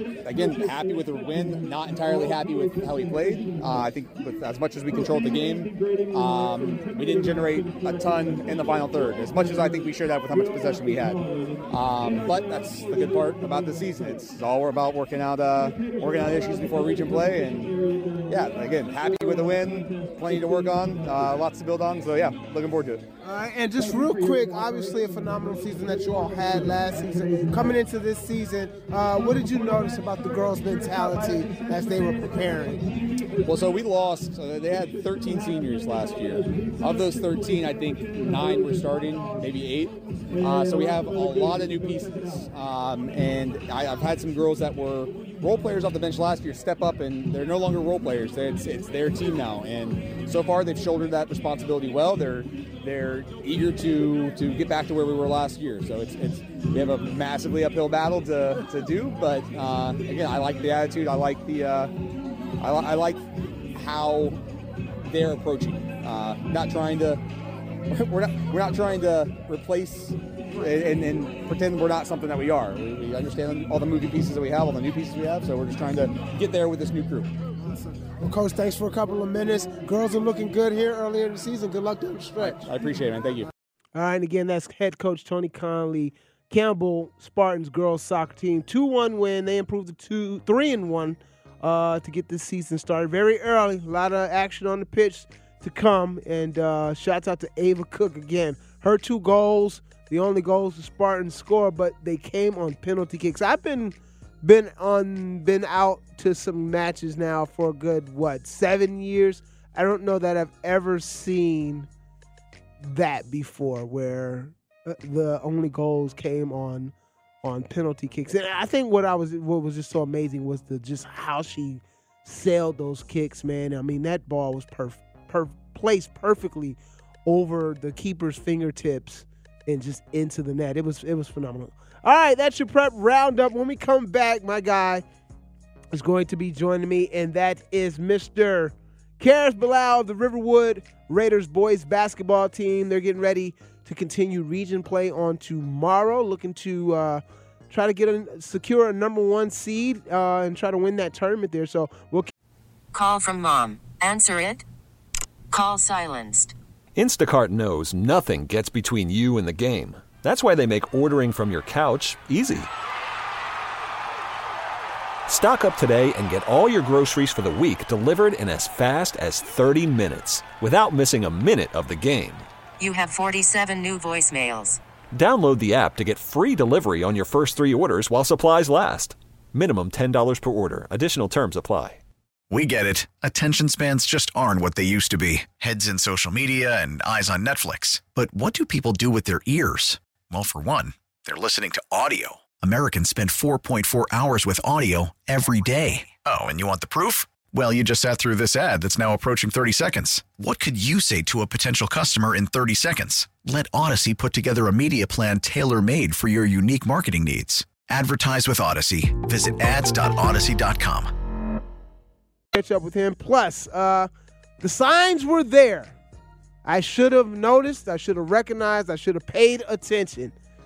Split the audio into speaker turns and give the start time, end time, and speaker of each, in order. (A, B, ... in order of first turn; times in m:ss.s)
0:00.2-0:17.7 A
0:18.3-0:23.0 A
0:23.2-0:32.8 B
0:33.4-1:01.9 A
1:02.6-1:04.4 A
1:05.0-1:07.2 A
1:07.9-1:17.3 A
1:18.2-1:22.6 B
1:22.4-1:23.5 A
1:24.0-1:51.9 B
1:52.8-2:15.0 B
2:15.9-2:32.3 B
2:32.9-2:34.6 C
2:35.5-2:36.6 C
2:37.0-2:42.7 D
2:45.3-2:52.5 D
2:52.8-2:54.8 C
2:55.1-3:02.0 D
3:02.5-3:31.1 E
3:32.5-3:34.1 B
3:34.6-3:36.0 B
3:36.6-3:40.4 B